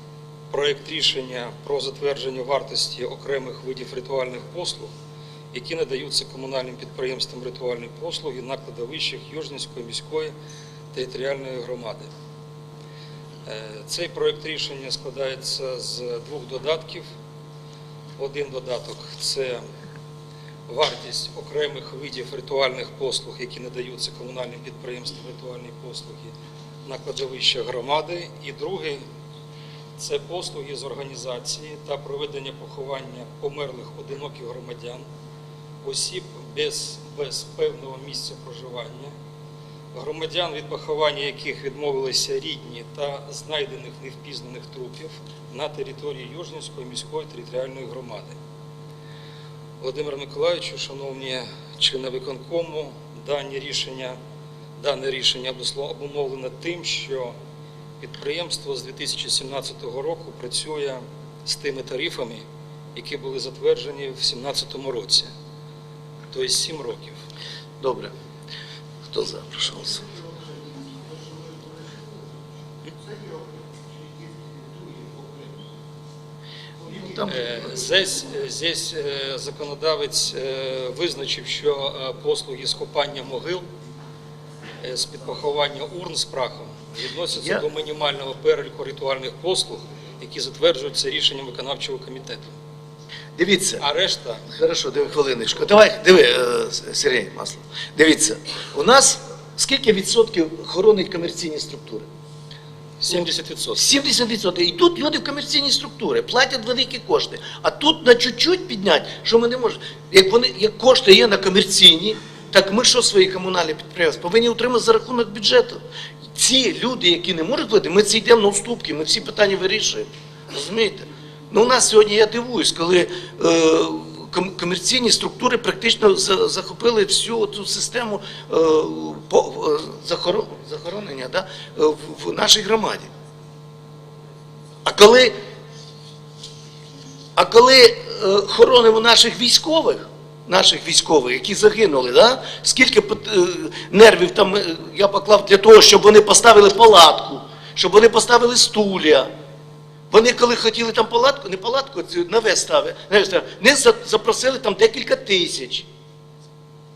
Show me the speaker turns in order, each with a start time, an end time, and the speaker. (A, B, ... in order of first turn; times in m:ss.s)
0:00.5-0:04.9 A
0:05.5-0:10.3 A
0:10.9-0:12.1 A
0:13.4-0:17.1 A
0:18.2-0:19.6 A
0:20.7-0:26.3 A
0:26.8-0:29.0 A
0:30.0-0:35.0 A
0:35.8-0:39.1 A
0:39.9-0:48.4 A
0:49.8-0:54.2 A
0:54.8-0:57.4 A
0:58.0-1:05.3 A
1:06.3-1:07.2 A
1:07.8-1:08.1 B
1:09.1-1:10.2 B
1:16.8-1:17.9 B
1:17.3-1:23.7 A
1:24.8-1:32.5 A
1:27.3-1:27.6 B
1:33.4-1:33.8 B
1:33.8-1:34.4 A
1:34.5-1:42.1 B
1:43.0-1:44.0 A
1:43.1-1:55.8 B
1:56.3-2:13.1 B
2:14.8-2:15.3 B
2:17.4-2:29.3 B
2:30.1-2:35.9 B